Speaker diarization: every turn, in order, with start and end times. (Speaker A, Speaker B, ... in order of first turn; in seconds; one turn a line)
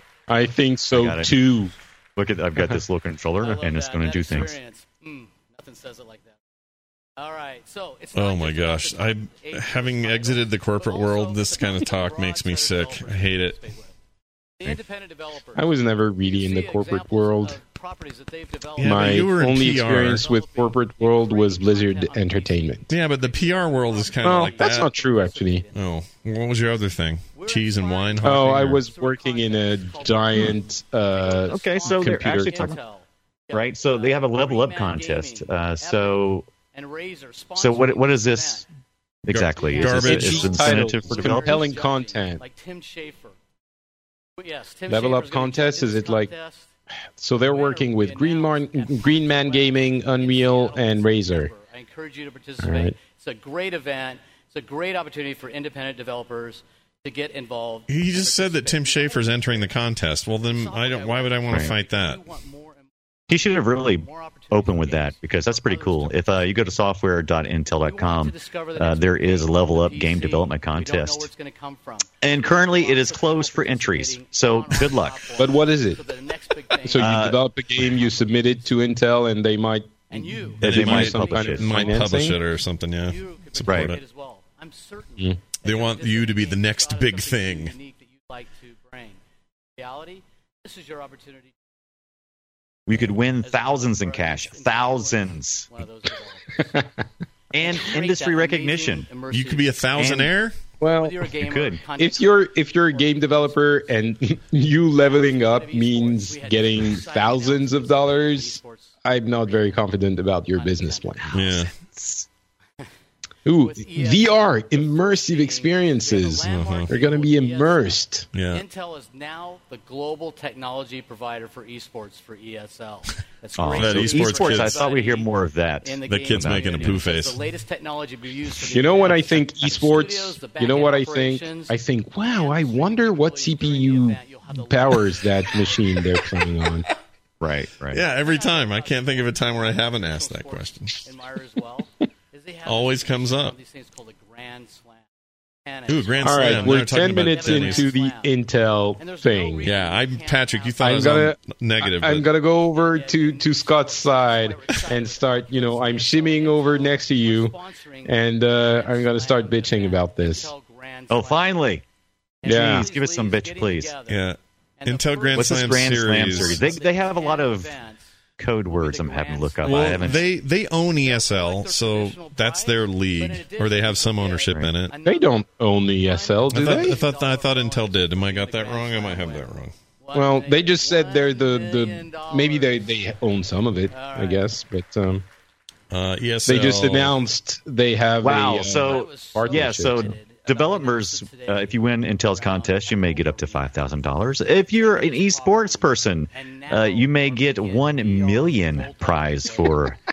Speaker A: 0.3-1.7
Speaker B: 0.9-1.4
Speaker B: 2.2-4.6
Speaker C: 3.4-6.4
Speaker C: 7.2-13.9
Speaker D: 8.1-13.6
Speaker C: 14.6-25.9
Speaker A: 15.6-17.6
Speaker D: 18.8-20.3
Speaker A: 18.8-22.9
Speaker D: 22.9-25.0
Speaker A: 24.2-25.6
Speaker D: 25.7-28.8
Speaker C: 27.3-38.7
Speaker A: 28.2-32.8
Speaker B: 31.5-32.8
Speaker B: 33.5-36.5
Speaker B: 37.6-38.6
Speaker B: 39.2-41.6
Speaker D: 39.3-40.9
Speaker C: 39.6-43.4
Speaker A: 39.8-42.4
Speaker C: 44.4-46.7
Speaker A: 44.9-46.3
Speaker A: 47.2-51.5
Speaker C: 47.5-59.8
Speaker A: 52.6-53.0
Speaker D: 57.9-62.2
Speaker C: 60.3-66.5
Speaker B: 63.3-71.3
Speaker C: 67.7-78.7
Speaker B: 72.2-75.3
Speaker A: 75.4-76.0
Speaker A: 76.8-82.4
Speaker B: 76.9-77.4
Speaker C: 80.1-82.5
Speaker D: 80.6-84.0
Speaker B: 80.6-81.7
Speaker C: 83.0-89.2
Speaker B: 83.7-83.9
Speaker D: 85.6-87.8
Speaker C: 89.8-91.5
Speaker B: 92.9-95.7
Speaker C: 93.4-96.8
Speaker A: 96.6-96.9
Speaker B: 97.5-99.1
Speaker C: 97.6-100.0
Speaker D: 99.3-100.6
Speaker B: 100.0-100.3
Speaker A: 100.8-101.2
Speaker C: 100.9-104.0
Speaker B: 101.4-101.8
Speaker A: 101.9-111.4
Speaker C: 105.0-109.0
Speaker C: 109.5-109.8
Speaker C: 110.5-111.7
Speaker D: 111.3-111.7
Speaker B: 111.9-112.2
Speaker A: 113.5-118.3
Speaker C: 113.6-135.7
Speaker D: 116.4-116.9
Speaker D: 118.3-118.7
Speaker B: 123.5-127.0
Speaker D: 123.8-124.8
Speaker D: 126.0-127.4
Speaker A: 128.7-136.8
Speaker B: 137.4-138.0
Speaker D: 137.9-141.0
Speaker C: 138.2-145.1
Speaker D: 142.7-143.6
Speaker C: 145.7-148.4
Speaker D: 145.9-147.9
Speaker A: 146.2-149.7
Speaker C: 149.0-151.1
Speaker D: 149.6-152.3
Speaker A: 150.8-160.5
Speaker C: 152.7-161.8
Speaker B: 161.1-161.8
Speaker C: 162.4-168.1
Speaker B: 162.4-164.0
Speaker A: 162.4-162.9
Speaker D: 164.1-166.8
Speaker B: 165.4-167.8
Speaker B: 168.4-170.2
Speaker C: 168.7-170.4
Speaker D: 169.6-175.0
Speaker C: 170.9-182.9
Speaker A: 175.1-177.0
Speaker D: 176.5-179.7
Speaker A: 180.1-185.2
Speaker C: 183.9-184.5
Speaker D: 185.9-187.2
Speaker A: 186.5-190.2
Speaker B: 188.2-200.0
Speaker C: 188.7-199.9